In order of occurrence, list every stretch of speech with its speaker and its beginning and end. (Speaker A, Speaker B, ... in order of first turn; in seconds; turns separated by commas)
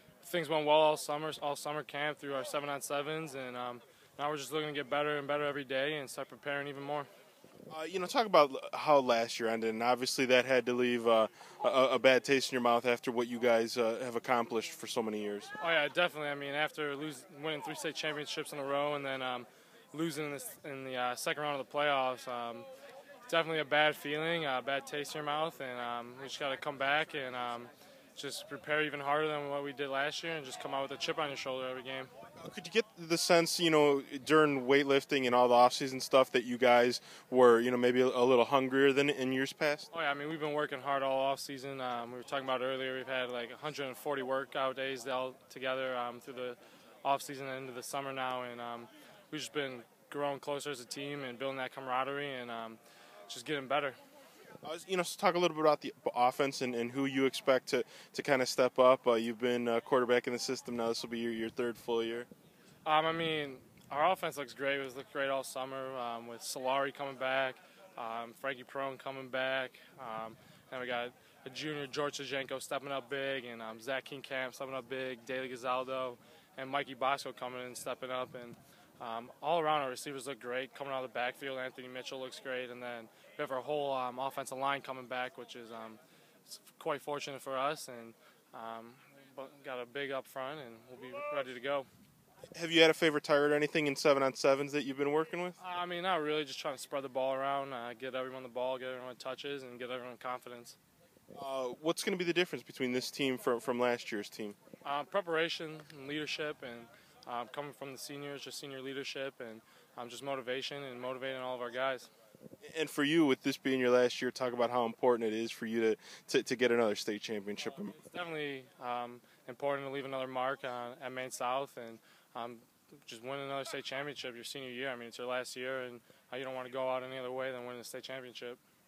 Speaker A: 0.2-7.1, Speaker B: 7.7-15.5, Speaker A: 15.6-22.7, Speaker A: 23.2-32.1, Speaker B: 32.4-39.9, Speaker A: 39.9-52.8, Speaker A: 53.3-54.0, Speaker B: 54.6-62.3, Speaker A: 62.9-91.9, Speaker B: 92.5-95.6, Speaker A: 95.6-100.8, Speaker B: 101.3-104.6, Speaker A: 104.8-112.1, Speaker B: 112.6-118.0, Speaker A: 117.9-128.6